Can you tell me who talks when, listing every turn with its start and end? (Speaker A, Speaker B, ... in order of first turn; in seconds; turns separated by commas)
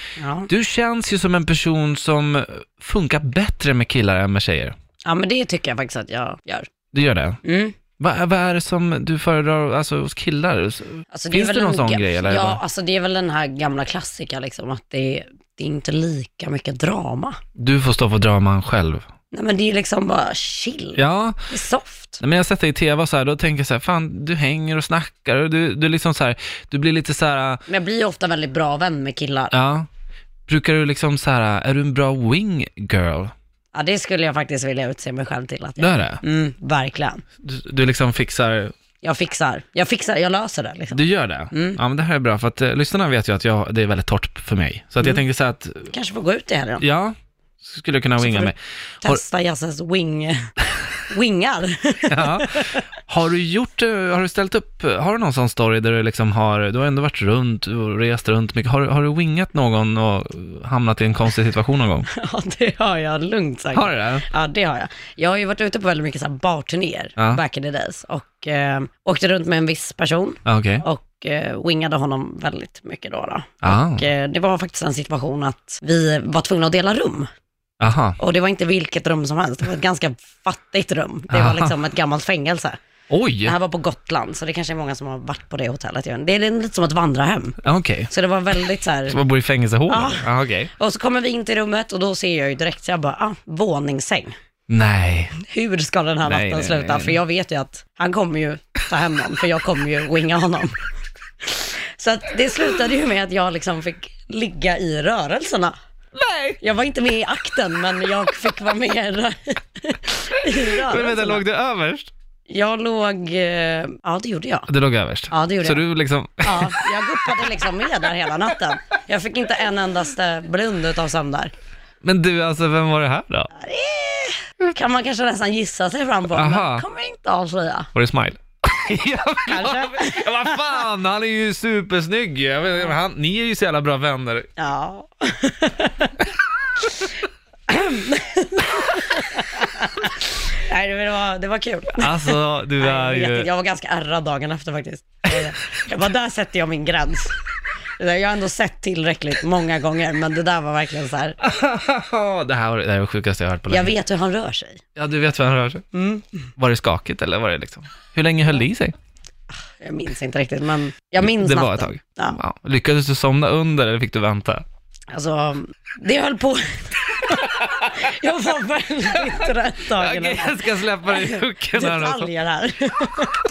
Speaker A: 0.2-0.5, Speaker B: 0.5-4.8, Speaker A: 5.0-6.7, Speaker B: 6.9-7.4, Speaker A: 7.4-7.8, Speaker B: 8.0-12.6, Speaker A: 11.1-17.4, Speaker B: 17.6-19.0, Speaker A: 19.3-22.2, Speaker B: 21.0-21.4, Speaker B: 22.2-27.6, Speaker A: 27.7-29.5, Speaker B: 29.5-29.9, Speaker B: 30.5-33.3, Speaker A: 33.7-37.2, Speaker B: 35.8-36.2, Speaker B: 37.4-38.7, Speaker A: 39.0-41.0, Speaker B: 40.9-45.9, Speaker A: 41.5-41.8, Speaker A: 45.9-46.8, Speaker B: 46.8-49.2, Speaker A: 48.2-50.5, Speaker A: 51.1-52.8, Speaker B: 52.1-62.1, Speaker A: 62.1-77.3, Speaker B: 63.7-64.2, Speaker B: 70.5-70.8, Speaker B: 73.6-74.0, Speaker B: 77.8-78.2, Speaker A: 78.2-82.8, Speaker B: 81.3-81.7, Speaker B: 83.1-83.5, Speaker A: 83.4-87.6, Speaker B: 87.6-88.1, Speaker A: 88.1-89.2, Speaker B: 89.1-90.7, Speaker A: 89.9-94.3, Speaker B: 94.7-95.4, Speaker A: 95.4-100.7, Speaker B: 96.2-97.2, Speaker A: 101.4-105.7, Speaker B: 106.2-106.6, Speaker A: 106.6-111.4, Speaker B: 110.9-112.1, Speaker A: 112.5-114.7, Speaker B: 114.7-116.9, Speaker A: 115.3-115.8, Speaker A: 116.4-121.5, Speaker B: 122.0-123.5, Speaker A: 123.5-127.9, Speaker B: 126.3-126.8, Speaker B: 128.0-134.5, Speaker A: 129.4-130.8, Speaker A: 134.6-136.1, Speaker A: 137.7-147.4, Speaker B: 142.0-143.5, Speaker A: 148.0-151.4, Speaker B: 151.4-153.9, Speaker A: 153.7-154.8, Speaker B: 155.0-155.8, Speaker A: 155.9-156.5, Speaker B: 156.6-158.9, Speaker A: 159.6-162.4, Speaker B: 161.2-164.6, Speaker A: 165.1-173.4, Speaker B: 169.3-172.3